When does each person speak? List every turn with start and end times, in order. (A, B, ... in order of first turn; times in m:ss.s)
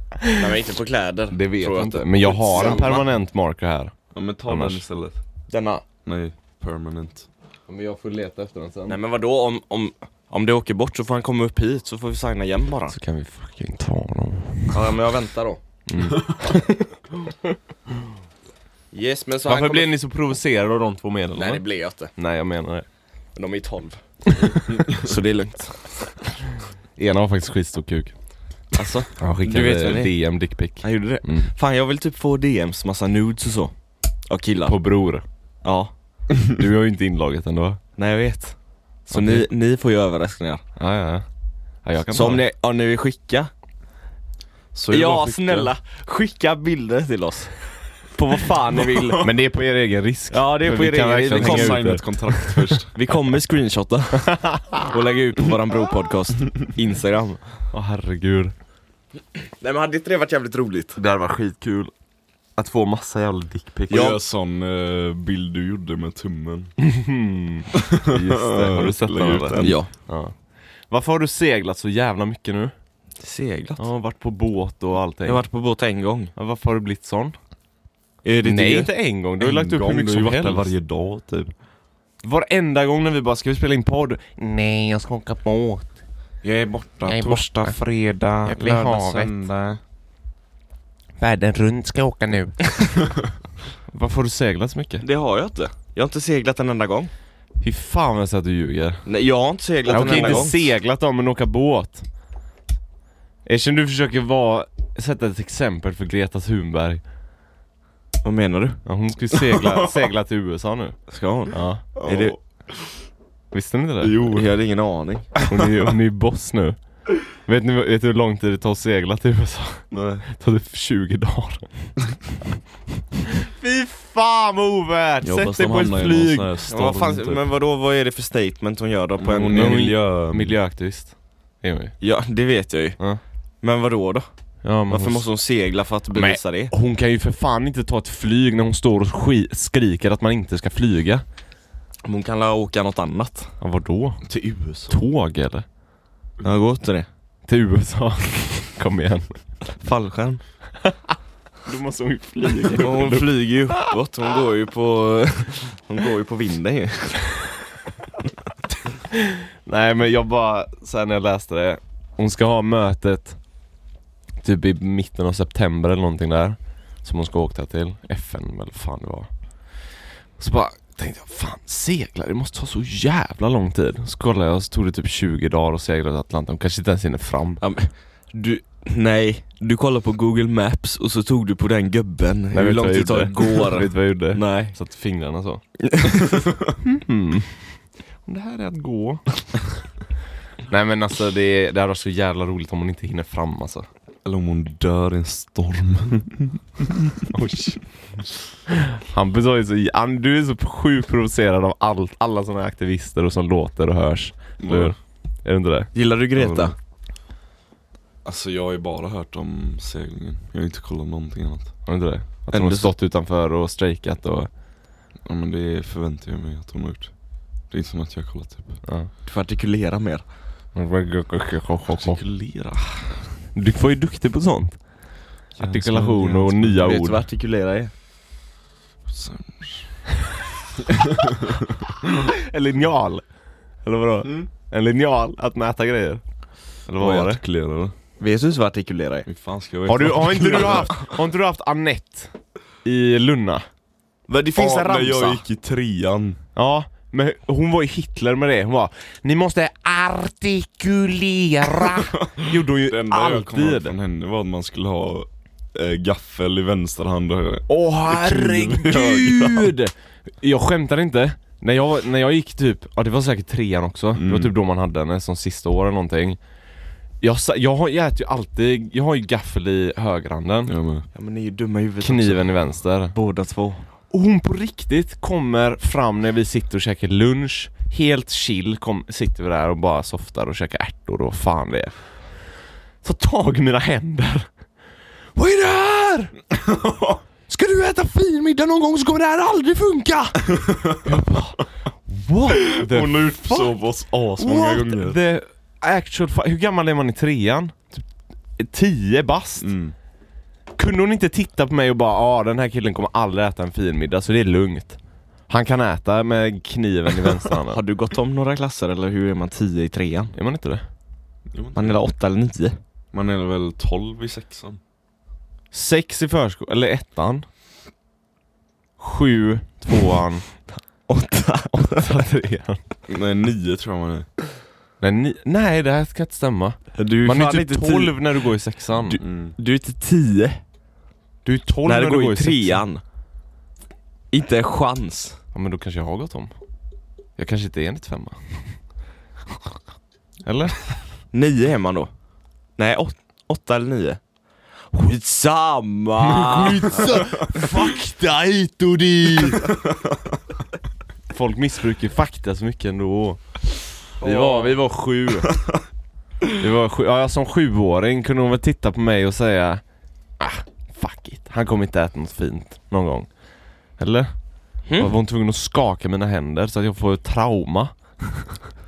0:00.3-0:03.0 A
0:01.3-0:04.8 B
0:02.5-0:02.9 C
0:04.1-0:05.2 C
0:05.5-0:05.8 A
0:06.0-0:07.3 C
0:07.7-0:09.0 B
0:08.9-0:13.0 A
0:12.9-0:14.9 B
0:14.7-0:15.6 A
0:15.9-0:17.4 B
0:18.9-0:19.9 A
0:19.4-0:22.9 B
0:21.4-0:22.1 A
0:23.4-0:26.2 A
0:24.3-0:24.8 B
0:27.0-0:28.2 B
0:28.7-0:33.7 A
0:29.2-0:31.5 B
0:34.3-0:34.8 A
0:34.7-0:35.2 B
0:35.6-0:35.9 A
0:36.5-0:37.8 B
0:38.0-0:40.6 A
0:39.1-0:39.5 B
0:40.8-0:41.2 B
0:41.8-0:42.4 B
0:42.1-0:43.5 A
0:44.7-0:45.7 C
0:44.9-0:49.3 A
0:49.2-0:52.9 B
0:50.3-0:51.9 A
0:51.3-0:52.9 C
0:52.9-0:57.4 A
0:54.3-0:54.9 B
0:57.7-0:58.5 B
0:59.6-1:01.0 A
1:01.0-1:01.9 B
1:02.6-1:04.1 B
1:03.9-1:06.8 C
1:03.9-1:04.2 A
1:06.8-1:12.7 B
1:07.9-1:09.8 C
1:09.6-1:09.9 A
1:13.2-1:13.9 A
1:13.8-1:15.4 B
1:15.2-1:16.3 A
1:16.4-1:17.4 B
1:18.2-1:18.9 A
1:18.4-1:20.7 B
1:19.4-1:21.5 C
1:22.2-1:26.0 B
1:26.6-1:27.6 C
1:27.1-1:29.3 B
1:28.4-1:29.8 C
1:31.2-1:32.7 B
1:33.9-1:35.0 B
1:35.0-1:37.1 A
1:37.6-1:39.0 B
1:39.1-1:40.6 A
1:39.8-1:40.5 C
1:39.9-1:42.0 B
1:43.5-1:47.0 B
1:48.2-1:48.8 A
1:48.8-1:51.0 B
1:51.1-1:52.4 A
1:51.5-1:51.8 B
1:52.0-1:53.0 C
1:53.5-1:54.2 B
1:54.0-1:55.3 A
1:55.4-2:01.7 B
1:59.9-2:00.3 C
2:03.5-2:06.5 B
2:05.2-2:07.5 C
2:06.7-2:09.9 A
2:09.2-2:10.6 C
2:09.5-2:12.0 B
2:12.0-2:13.0 A
2:13.6-2:14.3 A
2:14.6-2:15.3 B
2:14.9-2:16.7 A
2:16.1-2:21.2 B
2:22.0-2:23.6 A
2:23.6-2:24.2 B
2:24.2-2:25.0 C
2:24.9-2:25.6 B
2:26.4-2:27.1 A
2:27.5-2:29.4 B
2:29.8-2:30.4 A
2:30.8-2:31.1 B
2:31.6-2:33.9 B
2:32.8-2:37.4 A
2:39.1-2:43.4 B
2:44.4-2:57.6 B
2:57.6-3:04.8 A
3:02.5-3:05.6 B
3:05.8-3:06.4 A
3:06.8-3:09.8 B
3:10.7-3:13.9 B
3:14.2-3:17.0 C
3:17.3-3:17.9 B
3:19.0-3:25.9 B
3:24.6-3:25.0 C
3:25.9-3:26.8 A
3:26.4-3:26.7 C
3:28.2-3:31.7 C
3:31.9-3:34.5 B
3:32.5-3:32.9 A
3:35.2-3:38.8 C
3:38.8-3:39.1 B
3:39.2-3:40.2 A
3:40.8-3:42.2 B
3:42.2-3:42.6 C
3:43.5-3:44.9 B
3:45.5-3:47.2 B
3:45.6-3:46.8 C
3:46.8-3:47.9 A
3:49.1-3:50.0 C
3:51.0-3:51.7 C
3:52.2-3:53.3 B
3:53.8-3:56.3 B
3:56.8-3:57.4 B
3:56.9-3:58.0 C
3:58.2-3:59.3 A
3:59.2-4:01.0 C
3:59.9-4:02.3 B
4:02.8-4:03.6 B
4:04.3-4:05.4 A
4:04.6-4:06.4 C
4:06.6-4:14.0 B
4:12.4-4:19.7 C
4:17.7-4:26.4 B
4:24.2-4:24.5 C
4:27.2-4:30.7 B
4:30.7-4:31.1 C
4:31.1-4:33.8 A
4:32.0-4:33.2 B
4:34.1-4:42.4 B
4:43.0-4:44.5 B
4:45.4-4:46.4 B
4:47.5-4:53.8 B
4:50.8-4:51.1 C
4:52.7-4:55.2 C
4:54.4-4:59.7 B
4:59.6-5:00.0 C
5:00.8-5:07.8 B
5:07.7-5:10.3 A
5:10.3-5:10.8 B
5:11.5-5:12.0 C
5:11.8-5:12.8 A
5:13.1-5:14.8 C
5:15.7-5:17.4 B
5:19.0-5:20.6 B
5:21.1-5:22.2 A
5:22.0-5:22.8 B
5:23.1-5:24.3 C
5:25.0-5:29.2 B
5:27.0-5:28.2 A
5:29.1-5:30.6 A
5:29.2-5:29.6 C
5:31.4-5:32.8 B
5:31.8-5:33.0 A
5:34.3-5:35.4 A
5:35.5-5:36.5 B
5:37.4-5:38.9 B
5:40.4-5:40.8 B
5:41.3-5:42.1 A
5:42.8-5:44.2 A
5:44.9-5:47.2 A
5:46.2-5:49.7 B
5:51.3-5:53.7 B
5:54.2-5:55.6 B
5:54.2-5:54.8 A
5:56.5-5:59.8 B
6:00.4-6:03.4 B
6:04.0-6:08.5 B
6:04.9-6:05.1 A